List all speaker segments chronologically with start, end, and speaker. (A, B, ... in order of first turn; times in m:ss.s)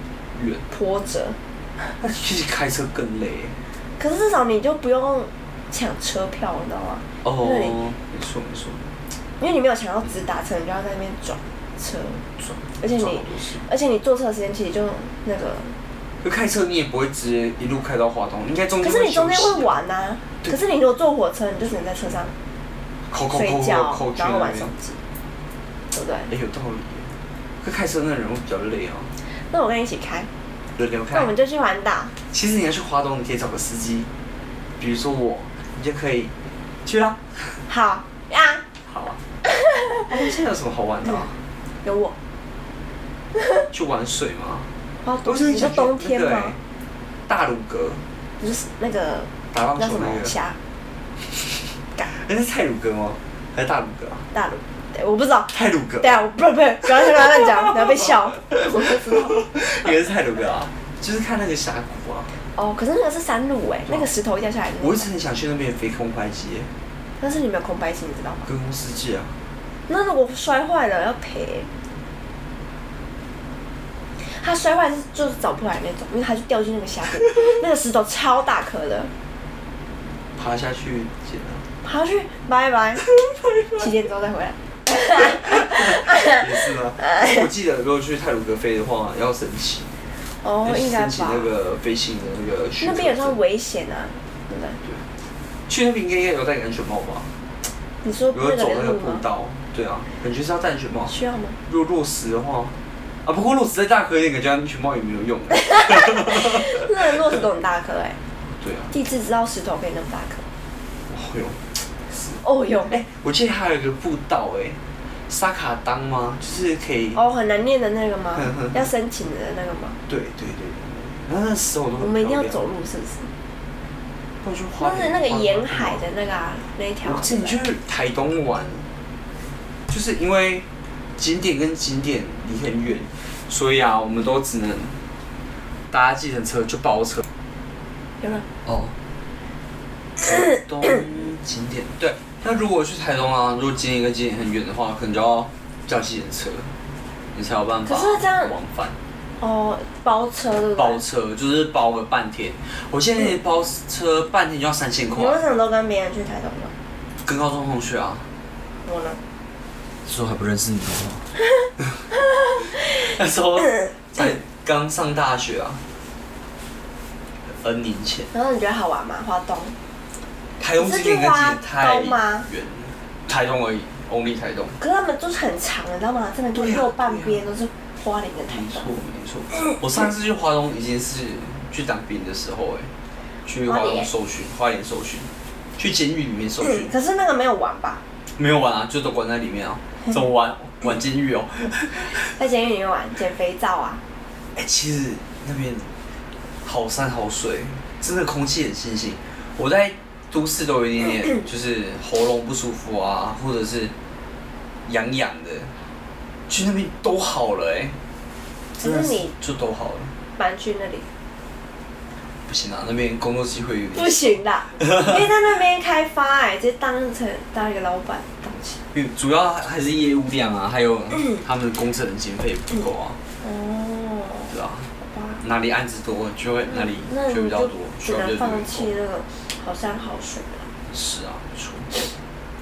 0:00.3-0:00.6 A
0:00.7-0:01.4 B
0:02.0-0:03.6 A
0:04.0-0:07.8 B
0:07.2-0:08.8 A
0:09.4-0:15.8 B
0:12.6-0:13.6 A
0:16.2-0:19.7 A
0:18.8-0:22.3 B
0:23.1-0:24.7 A
0:23.3-0:25.0 B
0:25.9-0:26.3 B
0:26.3-0:29.1 A
0:29.3-0:30.3 B
0:30.8-0:31.3 A
0:31.1-0:32.1 B
0:32.3-0:34.1 A
0:34.8-0:36.3 A
0:36.8-0:37.6 A
0:37.7-0:38.6 B
0:38.9-0:39.2 A
0:39.5-0:39.9 B
0:40.1-0:41.4 A
0:41.8-0:42.2 B
0:43.7-0:44.7 A
0:45.0-0:46.6 B
0:45.2-0:46.6 A
0:47.3-0:48.0 A
0:48.4-0:50.6 B
0:49.5-0:50.3 A
0:52.0-0:54.2 A
0:54.3-0:59.4 B
0:55.5-0:56.2 A
0:57.7-0:58.0 A
0:58.6-1:02.3 A
1:02.6-1:05.1 B
1:04.8-1:06.7 A
1:07.2-1:08.5 B
1:08.4-1:09.4 A
1:09.9-1:11.7 B
1:14.2-1:19.1 B
1:20.4-1:21.7 A
1:21.8-1:23.1 B
1:23.8-1:26.4 B
1:25.1-1:29.9 A
1:30.4-1:31.5 B
1:30.6-1:33.4 A
1:32.8-1:34.8 B
1:35.7-1:37.3 A
1:38.0-1:39.2 B
1:38.3-1:41.1 A
1:41.1-1:41.6 B
1:41.7-1:46.8 A
1:45.6-1:48.2 B
1:48.6-1:48.9 A
1:48.9-1:50.5 B
1:51.1-1:57.2 A
1:52.4-1:53.0 B
1:57.1-2:00.0 B
1:58.4-1:58.8 A
2:00.1-2:02.6 A
2:02.0-2:03.3 B
2:04.4-2:06.0 A
2:04.8-2:07.6 B
2:07.0-2:08.9 A
2:09.9-2:15.0 A
2:15.9-2:17.2 A
2:18.2-2:18.5 B
2:18.6-2:19.0 A
2:20.2-2:26.7 A
2:27.3-2:29.0 A
2:27.9-2:28.5 B
2:29.4-2:31.0 B
2:30.8-2:35.4 A
2:35.2-2:36.7 B
2:37.2-2:38.3 A
2:38.8-2:39.2 B
2:40.0-2:41.3 A
2:42.7-2:45.8 A
2:47.5-2:48.3 A
2:48.3-2:49.8 B
2:50.6-2:54.8 A
2:50.8-2:52.5 B
2:54.8-2:58.9 B
2:56.6-2:57.4 A
2:58.5-3:02.9 A
3:03.5-3:06.9 A
3:03.6-3:04.1 B
3:06.6-3:08.0 B
3:08.4-3:12.3 A
3:12.4-3:14.0 B
3:14.6-3:15.9 A
3:16.6-3:23.9 A
3:24.9-3:25.8 A
3:26.5-3:28.0 A
3:28.8-3:29.3 B
3:28.8-3:30.1 A
3:30.4-3:31.1 B
3:32.5-3:35.1 A
3:33.9-3:38.8 B
3:38.9-3:43.2 A
3:43.4-3:45.4 B
3:44.5-3:48.9 A
3:46.7-3:50.7 B
3:50.9-3:52.0 A